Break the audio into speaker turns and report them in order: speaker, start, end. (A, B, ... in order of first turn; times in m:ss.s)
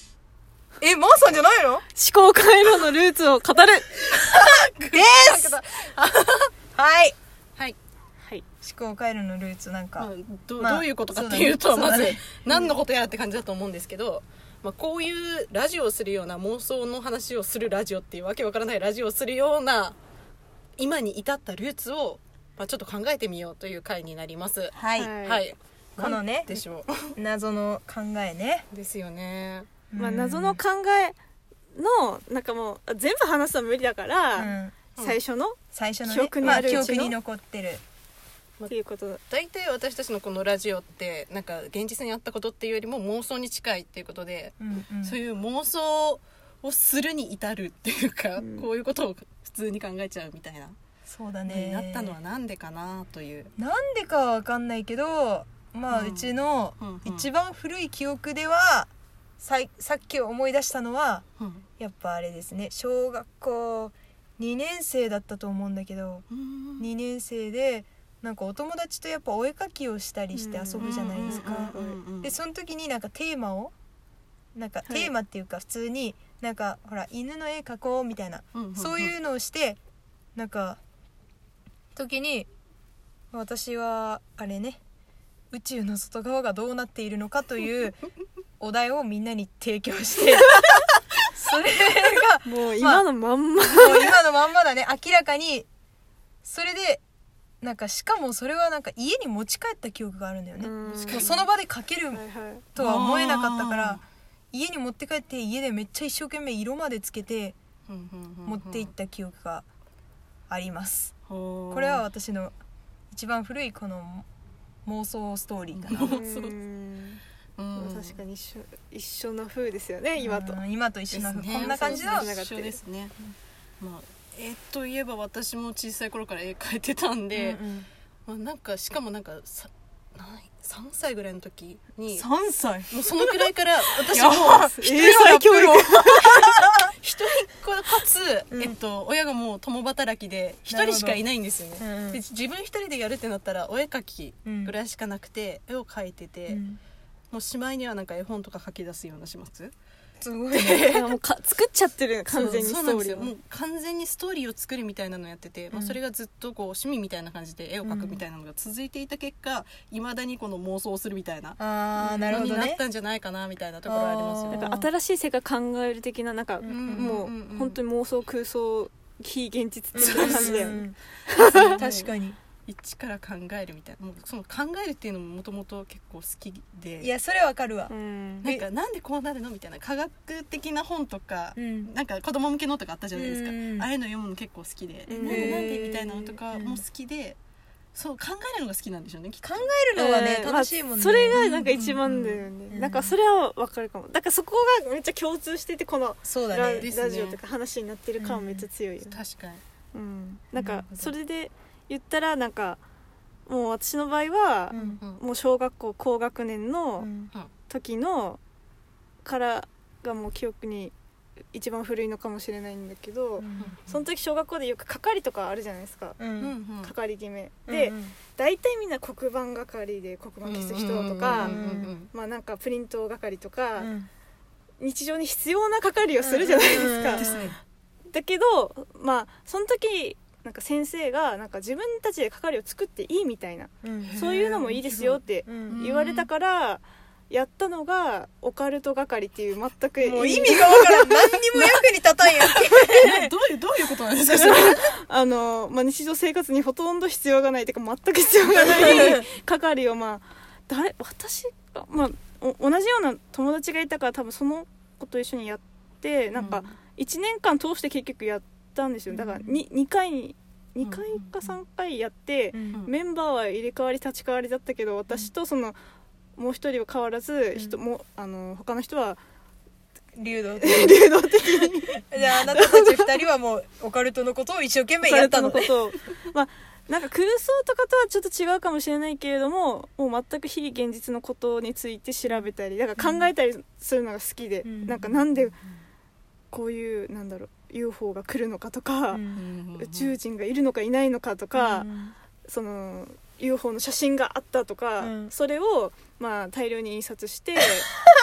0:00.8-0:01.8 A
0:01.9-0:03.9 B
0:04.0-0:06.5 C
0:04.9-0:05.6 A
0:06.7-0:07.2 A
0:08.6-0:12.6 A
0:10.0-0:20.0 C
0:20.8-0:27.1 C
0:24.7-0:25.1 A
0:25.0-0:25.4 B
0:26.0-0:28.6 A
0:28.7-0:29.7 C
0:29.9-0:30.6 A
0:30.0-0:31.2 B
0:31.7-0:37.2 B
0:34.3-0:34.8 A
0:35.7-0:37.8 A
0:36.4-0:37.0 C
0:38.7-0:39.2 B
0:39.3-0:50.8 C
0:44.6-0:45.2 A
0:48.4-0:48.6 B
0:51.1-0:52.2 A
0:51.4-0:53.5 C
0:53.6-1:01.2 A
0:55.9-0:57.3 C
1:01.4-1:01.6 C
1:01.8-1:06.2 A
1:06.3-1:06.9 C
1:06.8-1:13.7 A
1:10.3-1:12.0 B
1:10.8-1:12.3 C
1:14.5-1:19.8 A
1:14.8-1:15.1 B
1:18.5-1:19.1 C
1:20.4-1:20.8 A
1:21.9-1:22.5 A
1:23.3-1:24.8 A
1:25.5-1:28.0 A
1:28.6-1:33.0 A
1:32.4-1:34.2 B
1:33.7-1:35.7 A
1:36.4-1:37.0 A
1:37.6-1:42.2 A
1:40.6-1:41.3 B
1:40.8-1:41.5 C
1:42.1-1:42.7 B
1:42.7-1:44.0 A
1:42.8-1:44.0 C
1:44.5-1:47.5 A
1:47.9-1:48.9 C
1:48.4-1:49.6 A
1:50.5-1:51.1 A
1:51.2-1:52.0 C
1:51.7-1:52.5 A
1:53.1-1:54.2 A
1:54.8-1:56.2 A
1:55.7-1:56.5 C
1:56.0-1:57.2 B
1:57.6-1:58.2 C
1:57.7-2:00.6 B
2:00.2-2:02.3 A
2:01.1-2:03.2 C
2:01.5-2:02.8 B
2:03.8-2:07.6 C
2:07.3-2:07.9 A
2:08.3-2:12.3 C
2:12.8-2:26.6 C
2:13.1-2:13.5 A
2:14.1-2:14.4 A
2:14.2-2:16.4 B
2:15.0-2:15.4 A
2:20.7-2:21.2 A
2:21.8-2:22.2 A
2:24.4-2:24.7 A
2:26.5-2:26.8 A
2:27.3-2:29.7 C
2:30.2-2:31.0 A
2:30.6-2:30.8 C
2:30.8-2:33.3 B
2:32.3-2:44.7 C
2:35.7-2:36.0 A
2:37.8-2:38.2 A
2:41.6-2:42.8 A
2:43.8-2:44.9 A
2:44.5-2:51.8 B
2:46.6-2:47.2 A
2:46.6-2:47.8 C
2:49.9-2:52.4 A
2:49.9-2:50.6 C
2:51.4-2:52.1 C
2:52.7-2:57.1 C
2:57.0-2:57.9 A
2:57.9-2:58.4 B
2:58.4-3:07.4 C
3:01.6-3:01.9 A
3:03.1-3:03.9 A
3:05.1-3:05.7 B
3:05.2-3:06.8 A
3:07.9-3:09.7 C
3:09.4-3:11.7 A
3:09.9-3:19.2 B
3:11.3-3:12.5 C
3:12.7-3:13.1 A
3:16.2-3:16.9 A
3:16.6-3:17.4 C
3:18.2-3:18.6 A
3:19.0-3:19.6 C
3:19.9-3:22.8 B
3:20.6-3:21.1 A
3:23.4-3:27.1 B
3:24.7-3:25.0 A
3:24.8-3:25.2 C
3:27.0-3:27.3 A
3:27.7-3:28.4 B
3:29.2-3:30.9 B
3:31.5-3:36.2 B
3:33.4-3:33.8 A
3:36.2-3:36.5 A
3:36.4-3:36.9 C
3:36.8-3:43.9 B
3:37.7-3:38.1 A
3:40.4-3:42.1 C
3:41.3-3:41.9 A
3:43.8-3:44.1 A
3:44.8-3:47.3 B
3:46.2-3:47.5 A
3:47.1-3:47.6 C
3:48.1-4:01.8 B
3:53.8-3:54.2 A
3:54.1-3:55.1 C
3:54.7-3:55.8 A
3:55.7-3:56.3 C
4:00.0-4:03.3 A
4:02.4-4:04.9 C
4:04.2-4:25.8 B
4:08.6-4:09.2 A
4:16.4-4:16.7 C
4:19.1-4:19.6 A
4:20.8-4:21.3 C
4:22.5-4:22.8 A
4:26.4-4:29.2 B
4:30.2-4:31.1 A
4:30.6-4:33.1 B
4:32.1-4:35.7 A
4:35.0-4:45.6 B
4:43.0-4:43.3 A
4:44.6-4:45.2 A
4:46.5-4:51.9 B
4:49.1-4:49.4 A
4:49.3-4:50.2 C
4:51.5-4:52.1 A
4:52.4-4:57.9 B
4:55.0-4:55.3 A